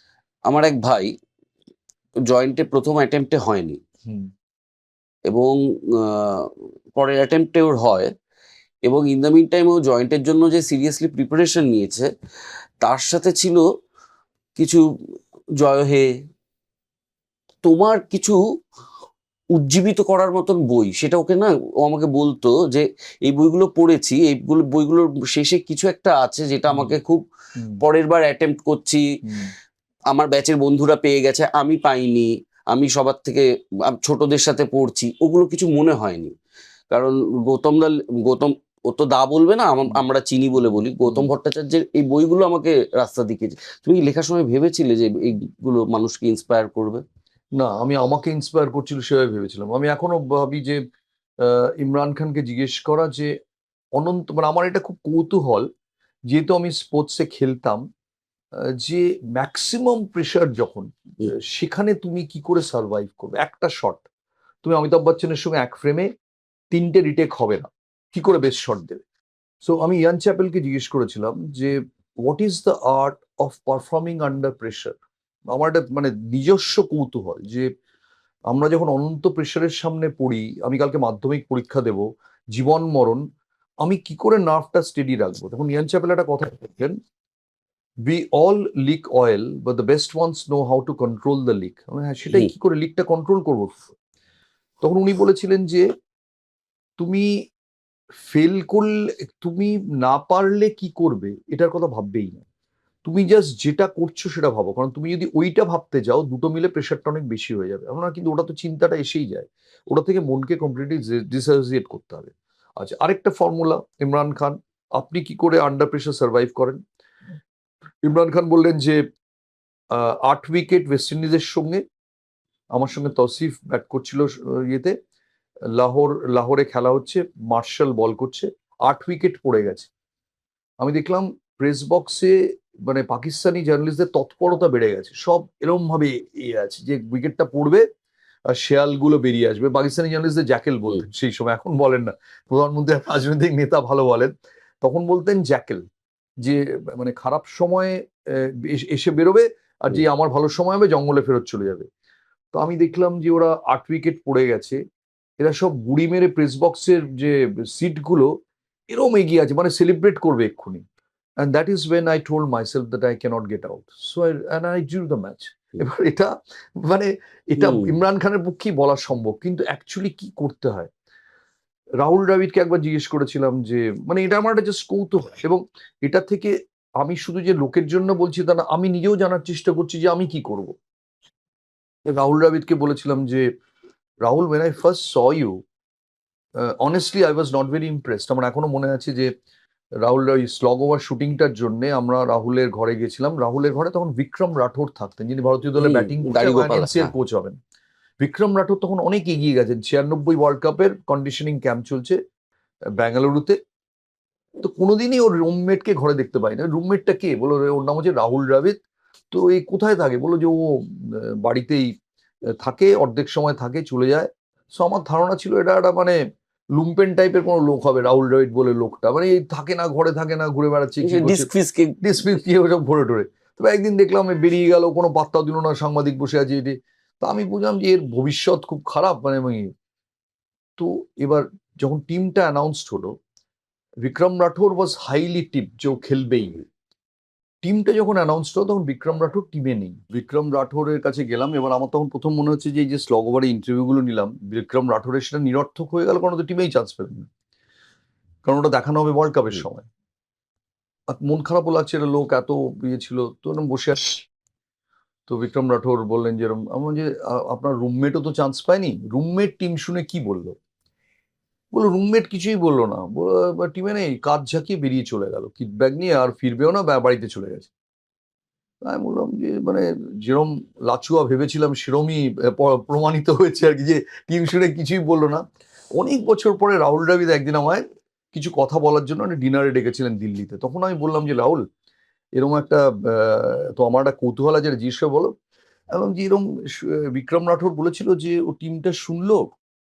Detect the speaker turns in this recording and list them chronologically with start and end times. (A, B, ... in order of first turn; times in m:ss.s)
0:00.5-0:01.1 A
0:02.3-0:03.8 A
0:05.3-0:08.1 A
0:08.8-0:12.1 A
0:12.8-0:13.6 A
0:14.6-0:14.8 A
0:15.6-0:16.1 A
0:17.6-0:18.4 A
0:19.5-0:27.2 A
0:26.7-0:27.0 B
0:27.8-0:29.0 A
0:29.2-0:29.5 B
0:30.1-0:36.3 A
0:36.9-0:47.0 A
0:40.6-0:41.3 B
0:47.6-0:50.8 B
0:51.4-0:53.3 B
0:54.0-0:55.7 B
0:56.3-0:57.8 B
0:58.8-1:04.0 B
1:04.6-1:06.1 B
1:06.7-1:09.0 B
1:09.6-1:15.0 B
1:15.5-1:17.7 B
1:18.5-1:23.2 B
1:23.8-1:26.9 B
1:28.0-1:33.8 B
1:34.8-1:35.8 B
1:37.0-1:37.3 B
1:38.2-1:42.4 B
1:43.0-1:56.8 B
1:58.0-1:59.0 B
1:59.9-2:01.8 B
2:02.7-2:04.9 B
2:05.7-2:09.9 B
2:10.8-2:12.3 B
2:12.9-2:17.8 B
2:18.5-2:24.3 B
2:24.8-2:25.8 B
2:26.4-2:31.8 B
2:32.5-2:34.8 B
2:35.4-2:38.3 B
2:38.9-2:40.8 B
2:41.4-2:50.9 B
2:47.6-2:47.9 A
2:52.0-3:00.7 B
3:02.1-3:03.4 B
3:04.2-3:05.6 B
3:06.7-3:09.3 B
3:10.0-3:17.5 B
3:15.8-3:17.1 A
3:18.2-3:22.2 B
3:23.0-3:23.6 B
3:24.6-3:28.7 B
3:29.3-3:31.9 B
3:32.5-3:36.2 B
3:36.8-3:41.5 B
3:41.0-3:42.0 A
3:42.0-3:49.7 B
3:50.8-3:53.1 B
3:54.0-3:56.6 B
3:57.6-4:07.3 B
4:08.4-4:09.8 B
4:11.1-4:14.2 B
4:15.3-4:20.6 B
4:21.7-4:27.7 B
4:28.8-4:35.4 B
4:35.9-4:41.6 B
4:42.4-4:45.3 B
4:45.9-4:49.5 B